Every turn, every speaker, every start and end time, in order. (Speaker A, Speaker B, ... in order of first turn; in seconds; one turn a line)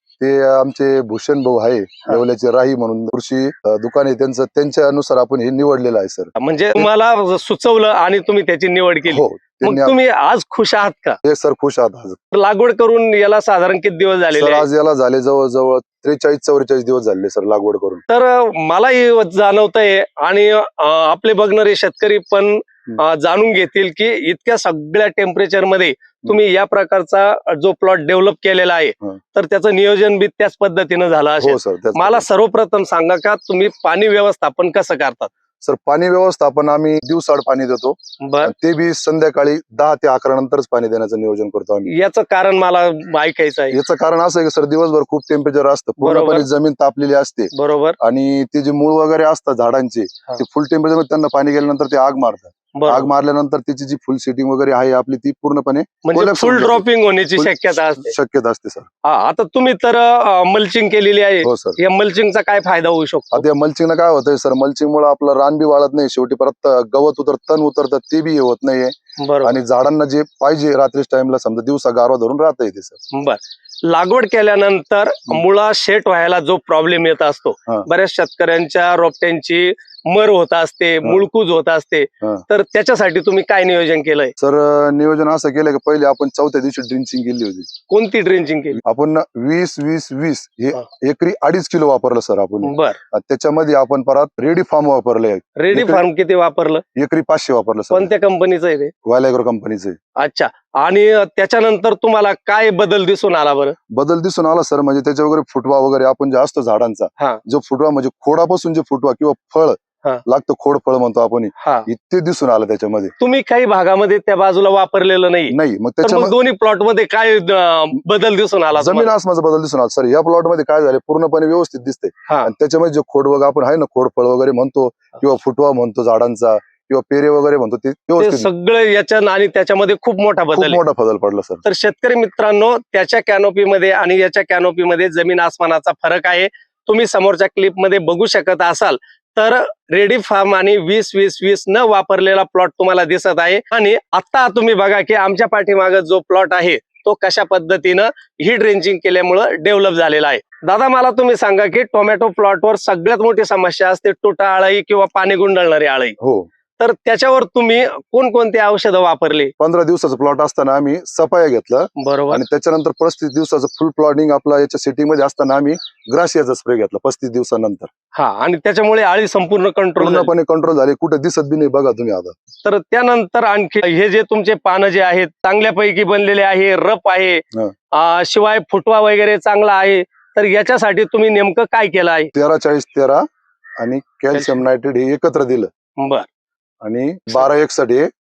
Speaker A: 0.2-6.9
Speaker B: 6.4-11.2
Speaker A: 9.1-10.0
Speaker A: 11.2-12.2
Speaker B: 12.3-14.6
Speaker A: 14.3-18.0
Speaker B: 18.1-35.3
Speaker A: 31.4-32.2
Speaker A: 35.6-41.9
Speaker B: 38.2-38.5
Speaker B: 41.9-43.8
Speaker A: 43.7-56.8
Speaker B: 46.0-46.5
Speaker B: 47.5-48.0
Speaker B: 52.8-53.1
Speaker B: 56.0-58.1
Speaker A: 57.4-58.9
Speaker B: 59.0-63.4
Speaker A: 61.4-61.8
Speaker A: 63.3-73.0
Speaker B: 69.2-69.6
Speaker B: 73.1-84.3
Speaker A: 84.4-87.7
Speaker B: 87.9-88.8
Speaker A: 88.8-96.0
Speaker B: 92.6-93.0
Speaker B: 95.6-96.8
Speaker A: 97.0-98.1
Speaker B: 97.9-98.9
Speaker A: 99.0-100.0
Speaker B: 100.2-103.8
Speaker A: 103.9-113.1
Speaker B: 111.6-111.9
Speaker B: 113.2-119.1
Speaker A: 115.5-116.3
Speaker A: 118.7-128.5
Speaker B: 128.2-130.8
Speaker A: 130.5-131.6
Speaker B: 131.6-156.2
Speaker A: 156.2-156.5
Speaker B: 156.8-159.5
Speaker A: 159.6-167.9
Speaker B: 162.0-162.4
Speaker B: 168.2-170.3
Speaker A: 170.0-172.3
Speaker B: 172.6-182.3
Speaker A: 182.3-183.2
Speaker A: 183.8-185.7
Speaker B: 184.3-184.6
Speaker B: 186.0-186.3
Speaker A: 186.8-188.1